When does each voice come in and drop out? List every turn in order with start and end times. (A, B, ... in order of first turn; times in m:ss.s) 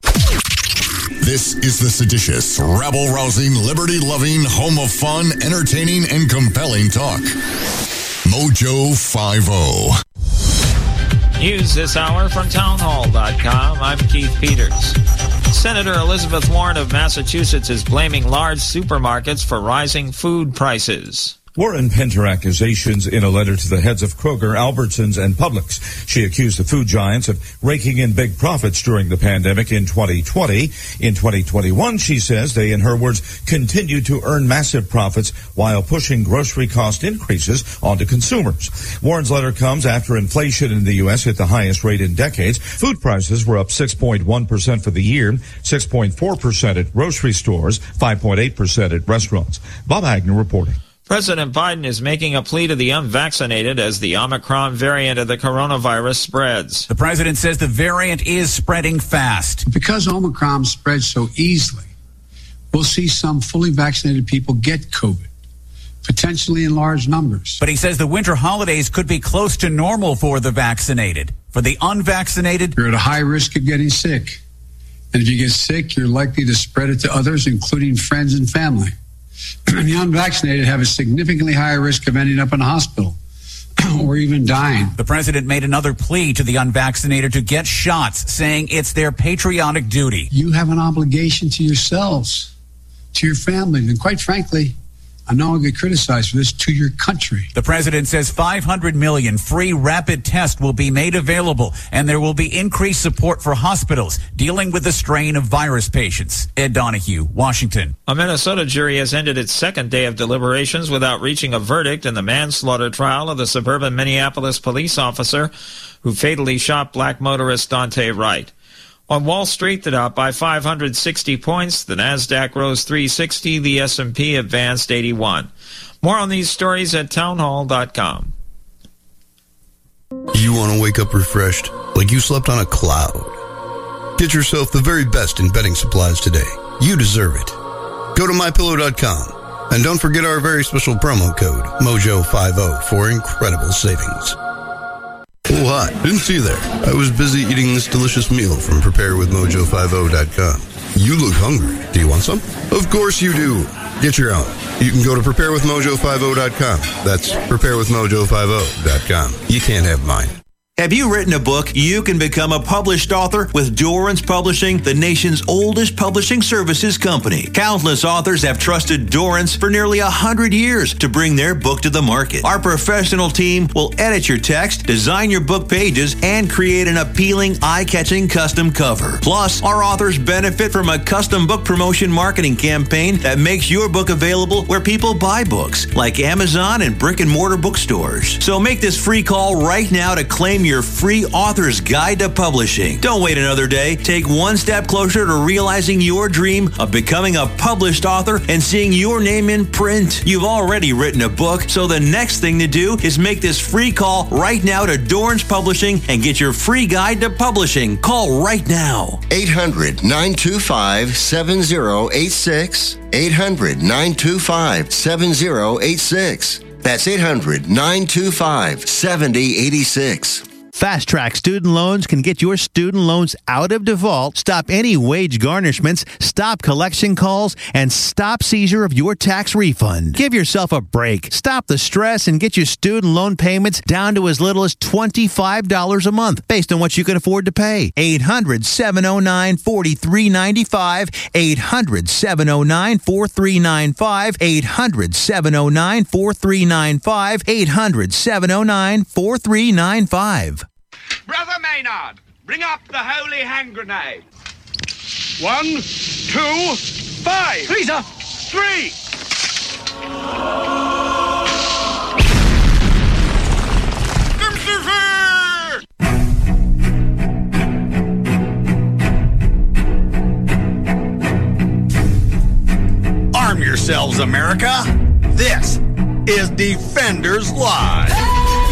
0:01.2-0:07.3 A
0:08.2-0:09.9 A
0:11.4-0:15.0 B
0:15.5-0:21.4 B
0:21.5-0:50.8 C
0:51.1-0:56.9 B
0:56.9-0:59.6 D
0:59.7-1:01.9 E
1:02.7-1:05.3 E
1:06.0-1:07.6 E
1:07.6-1:12.7 D
1:12.8-1:14.4 E
1:15.1-1:18.9 E
1:19.7-1:23.2 E
1:23.8-1:24.9 E
1:24.9-1:30.3 D
1:30.3-1:32.5 E
1:33.1-1:34.8 E
1:35.3-1:37.5 E
1:37.5-1:47.9 D
1:48.1-1:58.5 B
1:59.1-2:05.5 B
2:06.0-2:08.3 B
2:10.3-2:13.4 F
2:14.2-2:17.6 F
2:18.1-2:24.4 F
2:25.5-2:40.3 F
2:40.8-3:29.2 G
3:29.3-3:40.4 H
3:40.7-4:10.6 G
4:11.4-4:11.9 I
4:15.4-4:18.9 I
4:33.3-4:38.2 J